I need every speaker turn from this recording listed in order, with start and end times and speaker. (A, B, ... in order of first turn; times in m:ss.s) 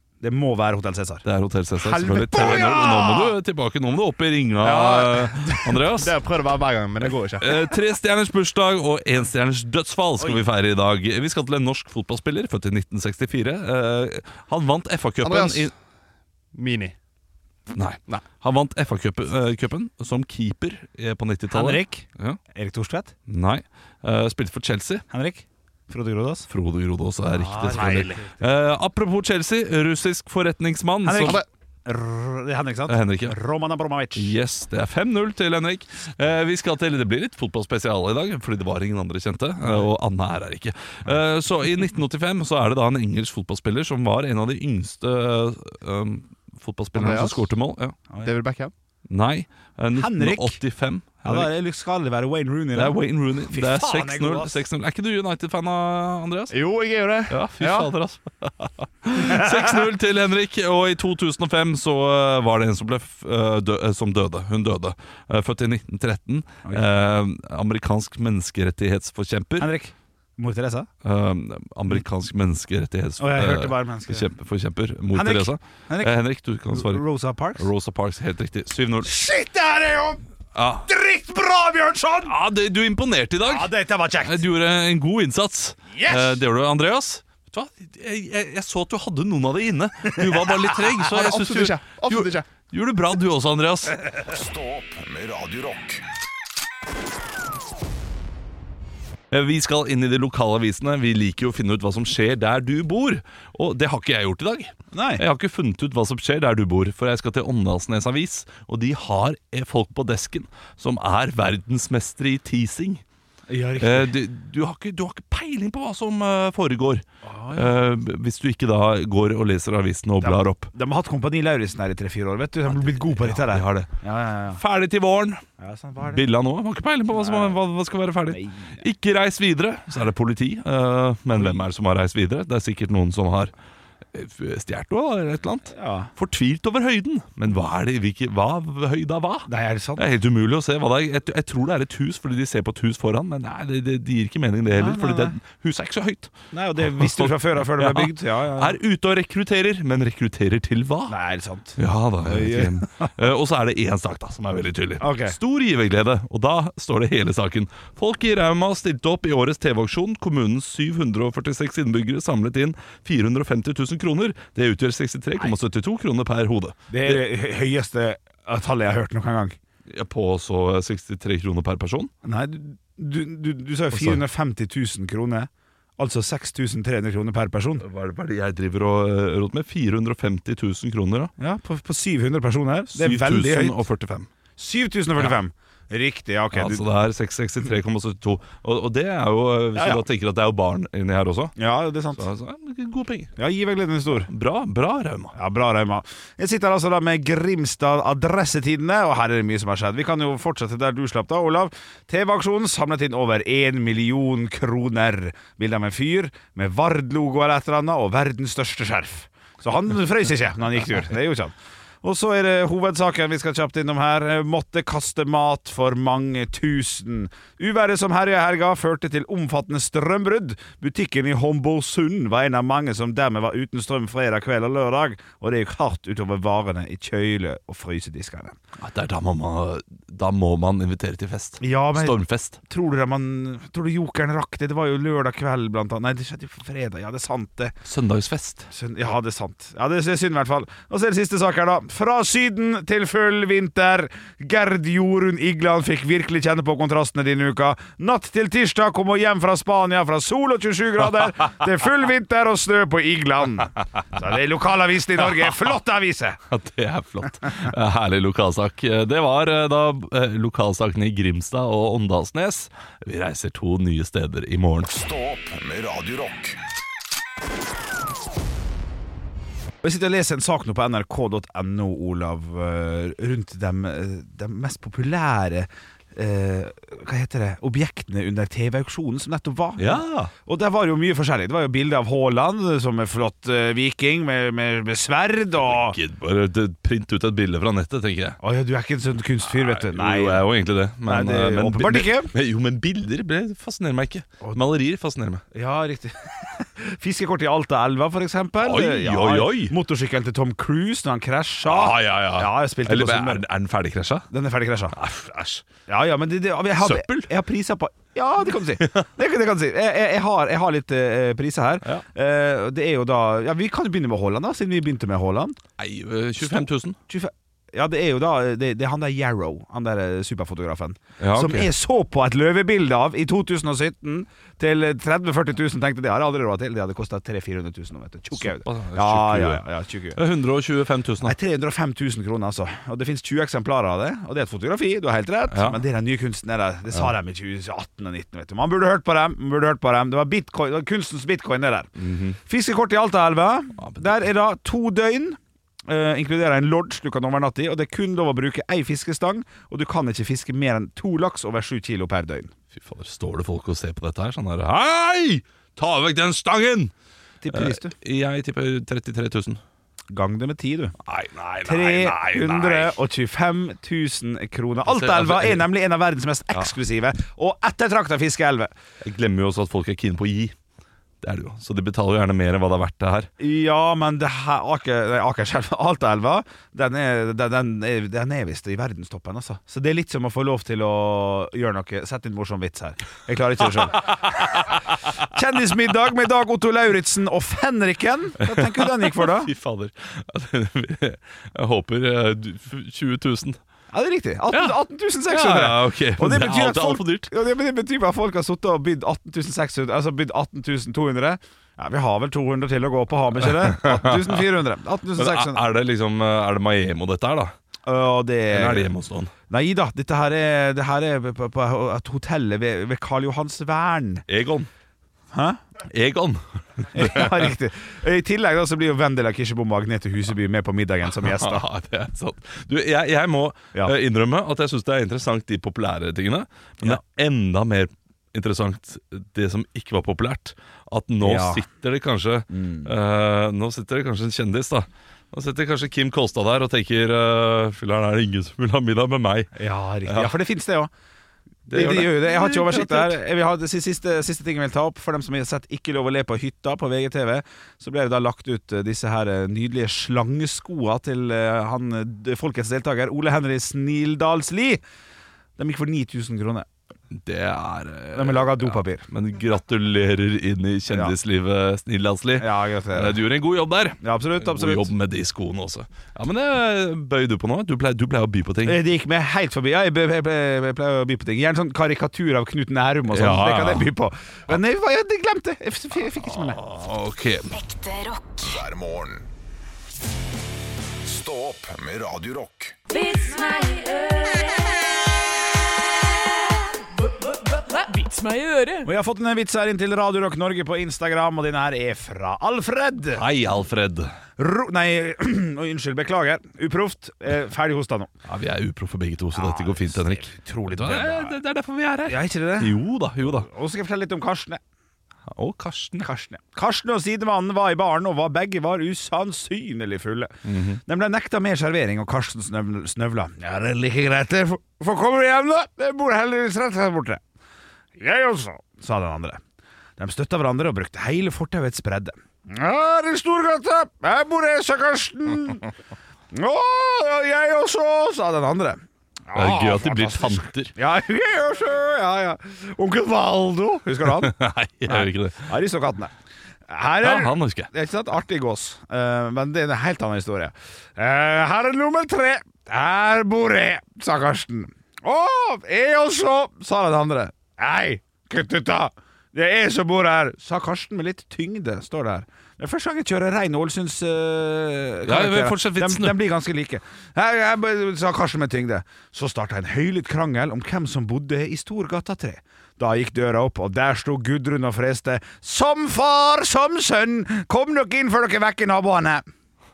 0:00.2-0:01.2 A
0:01.2-0:06.2 B
0:01.8-0:03.3 A
0:02.3-0:02.6 C
0:04.6-0:07.7 C
0:07.4-0:15.7 B
0:15.2-0:15.7 C
0:16.5-0:17.0 C
0:17.7-0:22.4 B
0:21.5-0:23.1 A
0:23.3-0:25.0 B
0:25.1-0:26.5 A
0:26.5-0:31.4 B
0:27.3-0:28.4 A
0:27.7-0:28.1 C
0:31.0-0:34.3 A
0:31.2-0:31.5 C
0:32.9-0:33.4 B
0:34.2-0:48.0 B
0:47.0-0:47.5 C
0:48.2-0:48.7 C
0:49.1-0:51.5 B
0:50.0-0:50.6 A
0:51.2-0:53.0 A
0:52.8-0:56.6 B
0:53.5-0:54.6 A
0:56.5-0:57.9 C
0:57.3-1:09.7 B
0:59.2-0:59.8 A
1:09.6-1:10.9 A
1:11.0-1:19.1 B
1:13.2-1:14.3 A
1:15.1-1:16.1 A
1:16.7-1:17.7 A
1:19.0-1:20.2 A
1:20.6-1:20.9 B
1:20.9-1:22.3 A
1:22.3-1:34.0 B
1:23.5-1:24.4 A
1:25.9-1:26.4 A
1:31.0-1:32.5 C
1:34.3-1:36.0 D
1:39.3-1:53.0 B
1:44.9-1:45.2 A
1:53.5-1:54.1 A
1:53.8-2:00.7 B
1:57.2-1:57.8 A
2:00.2-2:04.6 A
2:02.7-2:03.9 B
2:04.6-2:05.4 B
2:05.6-2:06.2 A
2:06.0-2:13.5 B
2:07.1-2:07.6 A
2:08.3-2:08.8 A
2:11.4-2:11.6 A
2:14.1-2:31.2 B
2:15.7-2:16.1 A
2:19.5-2:20.0 A
2:24.7-2:25.3 A
2:26.5-2:28.8 A
2:31.1-2:33.1 A
2:31.8-2:47.2 B
2:35.0-2:35.4 A
2:46.9-2:49.6 A
2:49.9-2:52.1 B
2:52.2-2:57.8 A
2:53.9-2:54.2 B
2:57.8-3:01.3 B
3:01.4-3:03.8 A
3:02.9-3:04.3 B
3:04.6-3:06.8 A
3:06.5-3:11.6 B
3:09.8-3:10.0 A
3:11.6-3:12.2 A
3:12.2-3:13.3 B
3:13.4-3:14.3 A
3:14.3-3:15.4 B
3:15.4-3:48.6 A
3:48.8-3:52.6 B
3:51.6-3:52.2 A
3:52.7-3:57.8 A
3:57.8-3:58.7 B
3:58.7-4:16.4 A
4:16.5-4:24.9 B
4:24.9-4:26.6 D
4:29.8-4:46.0 A
4:39.8-4:40.3 B
4:45.6-4:48.4 B
4:48.4-4:50.5 A
4:49.5-4:55.4 B
4:51.1-4:52.3 A
4:55.5-5:03.4 A
4:58.6-4:59.7 B
5:01.7-5:04.3 B
5:04.3-5:05.0 A
5:04.9-5:05.6 B
5:05.9-5:15.6 A
5:06.8-5:07.3 B
5:15.8-5:17.0 B
5:16.4-5:30.2 A
5:21.2-5:21.7 B
5:28.3-5:29.6 B
5:30.2-5:31.4 B
5:31.2-5:41.9 A
5:35.5-5:35.8 B
5:42.0-5:42.4 B
5:42.5-5:52.5 A
5:43.8-5:44.2 B
5:52.7-5:56.9 B
5:57.4-5:57.9 A
5:57.5-5:59.6 B
6:00.1-6:00.9 A
6:01.0-6:03.0 B
6:01.6-6:08.7 A
6:04.8-6:05.6 B
6:09.0-6:10.6 B
6:11.2-6:13.3 B
6:13.4-6:29.5 A
6:28.4-6:33.6 B
6:33.9-6:45.6 A
6:34.5-6:34.8 B
6:35.3-6:37.3 B
6:43.4-6:44.5 B
6:45.2-6:47.5 B
6:47.9-6:48.9 A
6:48.5-6:49.3 B
6:49.5-6:54.2 A
6:54.3-6:54.7 B
6:55.3-6:55.6 A
6:55.9-6:57.5 B
6:56.9-7:01.6 A
7:01.2-7:19.5 B
7:11.2-7:11.6 A
7:12.5-7:12.9 A
7:19.6-7:20.9 A
7:20.0-7:20.3 B
7:21.7-7:23.2 B
7:21.7-7:34.8 A
7:35.6-7:36.7 A
7:37.1-7:48.8 B
7:38.2-7:39.0 A
7:42.4-7:43.2 A
7:44.0-7:44.9 A
7:48.6-7:56.6 A
7:53.1-7:53.9 B
7:56.1-7:57.5 B
7:57.5-7:58.6 E
7:58.4-7:59.3 D
8:01.0-8:02.8 D
8:02.9-8:04.8 E
8:07.2-8:08.9 E
8:08.8-8:13.2 A
8:13.1-8:14.1 B
8:14.4-8:18.1 A
8:18.3-8:23.5 B
8:19.4-8:21.4 A
8:22.1-8:24.6 A
8:25.3-8:26.1 B
8:26.0-8:30.3 A
8:30.5-8:30.8 B
8:30.9-8:37.2 A
8:38.0-8:39.4 A
8:40.0-8:45.7 A
8:46.3-8:54.3 A
8:49.3-8:50.7 B
8:54.0-8:55.5 B
8:54.9-8:56.1 A
8:56.7-9:29.2 A
8:57.0-8:57.7 B
9:15.0-9:16.2 B